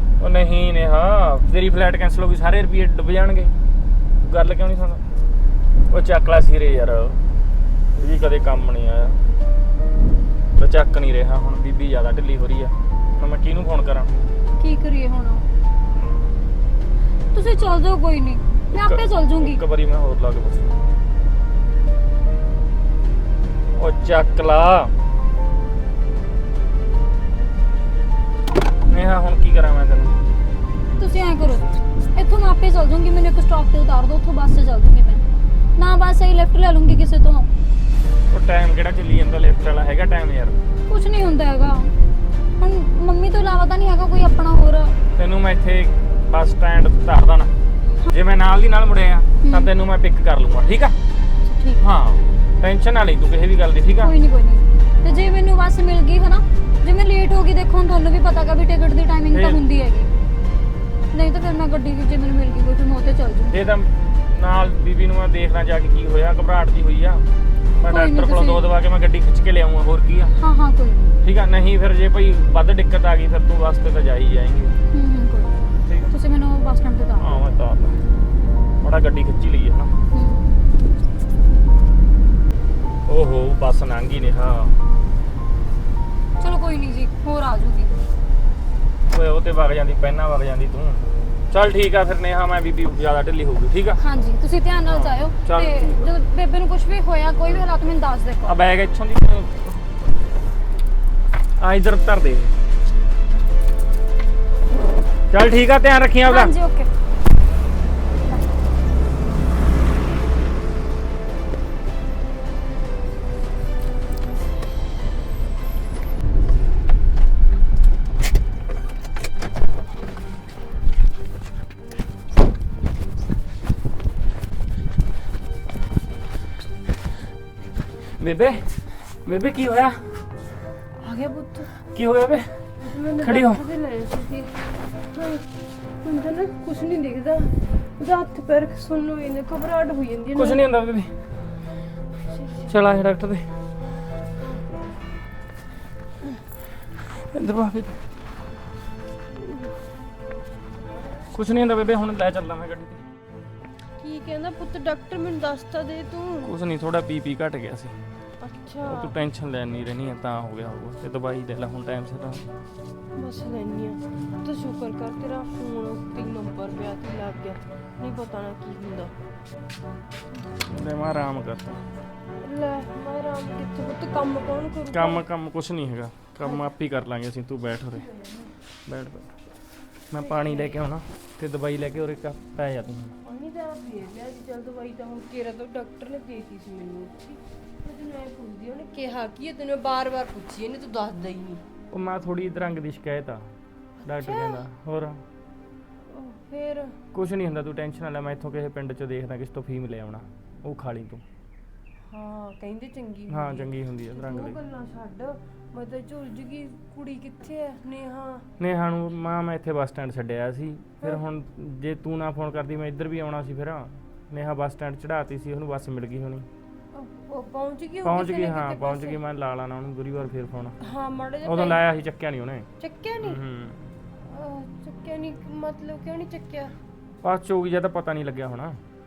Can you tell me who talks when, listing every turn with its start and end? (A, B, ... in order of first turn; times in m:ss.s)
0:00.2-0:03.5 A
0:04.2-0:05.0 A
0:05.9-0:07.2 A
0:07.9-0:09.2 A
0:10.6-0:14.1 A
0:14.6-0:15.4 B
0:17.3-0:19.6 B
0:18.8-0:20.8 A
0:23.8-0:24.9 A
0:28.9-0:30.2 A
0:31.0-0:37.5 B
0:38.3-0:40.6 A
0:40.9-0:41.9 B
0:42.6-0:45.0 B
0:45.1-0:47.5 A
0:48.1-0:51.0 A
0:49.4-0:49.7 B
0:51.4-0:51.8 B
0:51.8-0:54.1 A
0:54.0-1:00.1 B
0:59.3-0:59.6 A
1:01.1-1:03.6 B
1:03.5-1:07.2 A
1:07.8-1:10.4 A
1:07.9-1:08.7 B
1:10.4-1:11.2 B
1:11.2-1:14.8 A
1:14.9-1:17.3 B
1:15.8-1:16.1 A
1:17.2-1:18.0 A
1:18.8-1:19.9 A
1:20.1-1:20.5 B
1:23.1-1:24.8 A
1:26.4-1:28.0 B
1:29.0-1:34.0 A
1:34.0-1:38.6 B
1:34.9-1:36.1 A
1:38.4-1:39.8 A
1:41.6-1:42.5 A
1:45.3-1:46.5 A
1:46.2-1:46.9 B
2:08.1-2:10.1 A
2:11.0-2:11.7 C
2:11.9-2:12.6 A
2:12.8-2:14.6 C
2:13.2-2:13.6 A
2:15.1-2:15.4 C
2:16.0-2:20.7 C
2:20.4-2:21.1 A
2:22.3-2:22.7 C
2:22.7-2:23.4 A
2:27.2-2:28.0 A
2:31.3-2:33.0 A
2:34.0-2:36.5 C
2:36.4-2:38.0 A
2:38.4-2:39.1 C
2:38.8-2:42.4 A
2:43.2-2:49.1 C
2:50.7-2:51.8 A
2:52.4-2:55.2 C
2:54.9-2:58.1 A
2:56.4-2:56.7 C
2:58.0-2:58.5 C
2:58.9-2:59.3 A
3:00.1-3:03.1 A
3:00.2-3:00.8 C
3:03.2-3:11.6 C
3:11.9-3:13.5 A
3:14.0-3:15.2 A
3:14.1-3:14.7 C
3:16.1-3:17.0 C
3:17.1-3:21.2 A
3:22.1-3:28.5 C
3:23.3-3:24.6 A
3:28.6-3:36.4 A
3:36.9-3:39.2 C
3:38.0-3:40.8 A
3:40.8-3:41.8 C
3:41.4-3:42.7 A
3:42.8-3:43.4 C
3:43.2-3:43.9 A
3:44.2-3:46.7 C
3:47.2-3:48.8 A